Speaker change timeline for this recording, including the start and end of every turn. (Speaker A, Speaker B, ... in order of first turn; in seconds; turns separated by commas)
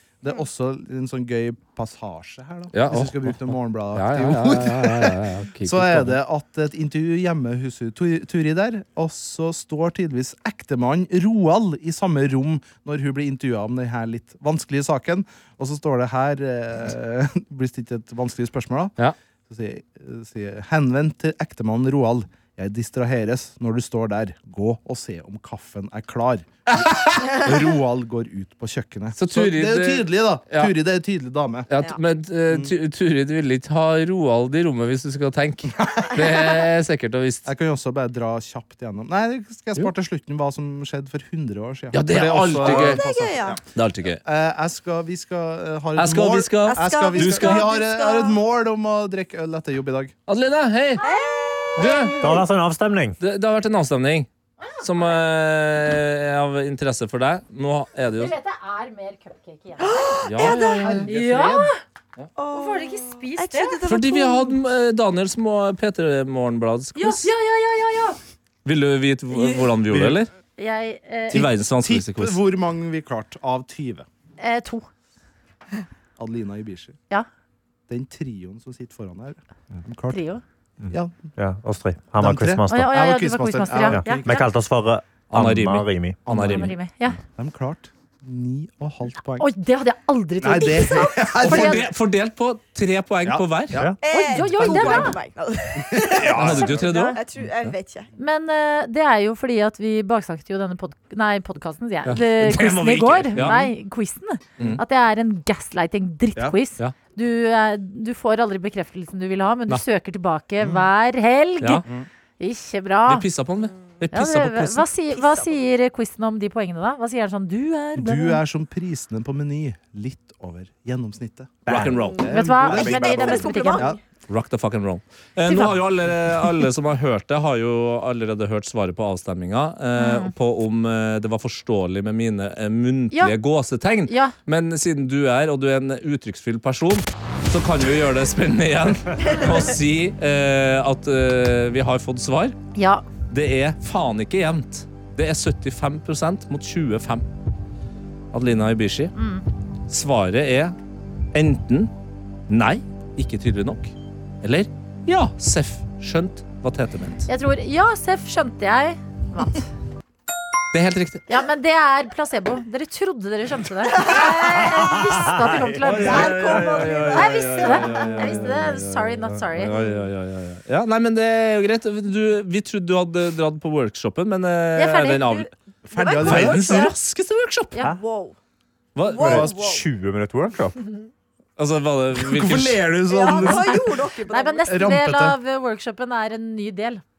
Speaker A: 0.2-18.9, Speaker B: 2.7-6.2, Speaker A: 19.5-31.7, Speaker B: 26.7-27.5, Speaker B: 29.1-30.7, Speaker B: 31.7-37.5, Speaker A: 35.8-36.6, Speaker A: 37.5-43.6, Speaker B: 41.9-43.0, Speaker C: 42.6-43.6, Speaker B: 43.7-44.2, Speaker A: 44.2-50.1, Speaker B: 46.0-47.7, Speaker C: 46.6-48.4, Speaker B: 50.3-51.0, Speaker C: 51.0-52.4, Speaker B: 51.8-52.2, Speaker D: 52.2-53.2, Speaker B: 53.2-54.3, Speaker E: 54.6-55.1, Speaker B: 54.8-58.3, Speaker E: 58.1-61.8, Speaker C: 59.8-60.9, Speaker B: 60.2-61.1, Speaker A: 60.5-61.7, Speaker C: 62.4-64.6, Speaker E: 62.5-63.8, Speaker B: 63.8-67.3, Speaker E: 67.0-68.2, Speaker B: 68.6-70.3, Speaker A: 69.9-70.2, Speaker E: 70.6-71.5, Speaker B: 71.3-72.4, Speaker A: 71.3-74.0, Speaker E: 74.4-74.9, Speaker A: 76.2-77.0, Speaker A: 77.9-80.2, Speaker E: 80.1-80.4, Speaker D: 80.8-83.0, Speaker A: 80.9-81.2, Speaker A: 82.2-84.4, Speaker E: 82.7-84.5, Speaker D: 83.9-86.5, Speaker B: 85.3-86.8, Speaker A: 86.3-86.7, Speaker E: 86.3-87.2, Speaker A: 87.3-89.5, Speaker E: 89.4-91.9, Speaker A: 90.4-91.9, Speaker B: 91.4-93.8, Speaker A: 93.2-95.1, Speaker C: 94.0-98.1, Speaker E: 94.1-95.2, Speaker A: 95.8-96.9, Speaker B: 96.3-97.2, Speaker E: 96.3-97.2, Speaker E: 98.2-111.8, Speaker B: 102.0-103.6, Speaker A: 103.4-103.7, Speaker A: 110.6-110.9, Speaker A: 111.8-112.1, Speaker E: 112.4-113.2, Speaker B: 113.0-114.9, Speaker E: 114.1-118.4, Speaker C: 115.1-115.6, Speaker A: 117.9-124.0, Speaker D: 121.7-121.9, Speaker B: 121.7-122.8, Speaker C: 121.9-124.0, Speaker E: 122.2-123.9, Speaker B: 124.3-142.6, Speaker E: 125.4-125.8, Speaker E: 129.9-130.3, Speaker E: 134.0-134.3, Speaker E: 142.7-143.0, Speaker B: 143.3-147.2, Speaker B: 148.3-149.1, Speaker E: 149.1-149.4, Speaker B: 149.9-150.8, Speaker B: 151.3-151.9, Speaker B: 152.5-157.3, Speaker E: 157.3-159.7, Speaker B: 160.7-161.2, Speaker E: 161.3-166.5, Speaker C: 163.9-164.9, Speaker D: 164.4-167.3, Speaker C: 165.8-168.2, Speaker B: 165.8-177.8, Speaker E: 167.1-169.8, Speaker E: 174.8-175.5, Speaker A: 175.9-176.9, Speaker C: 175.9-176.8, Speaker E: 176.2-176.9, Speaker C: 177.8-178.4, Speaker B: 178.9-179.5, Speaker C: 179.0-179.8, Speaker D: 179.1-180.8, Speaker B: 181.6-182.8, Speaker A: 182.1-183.9, Speaker C: 183.1-184.8, Speaker E: 183.3-187.0, Speaker A: 184.7-185.3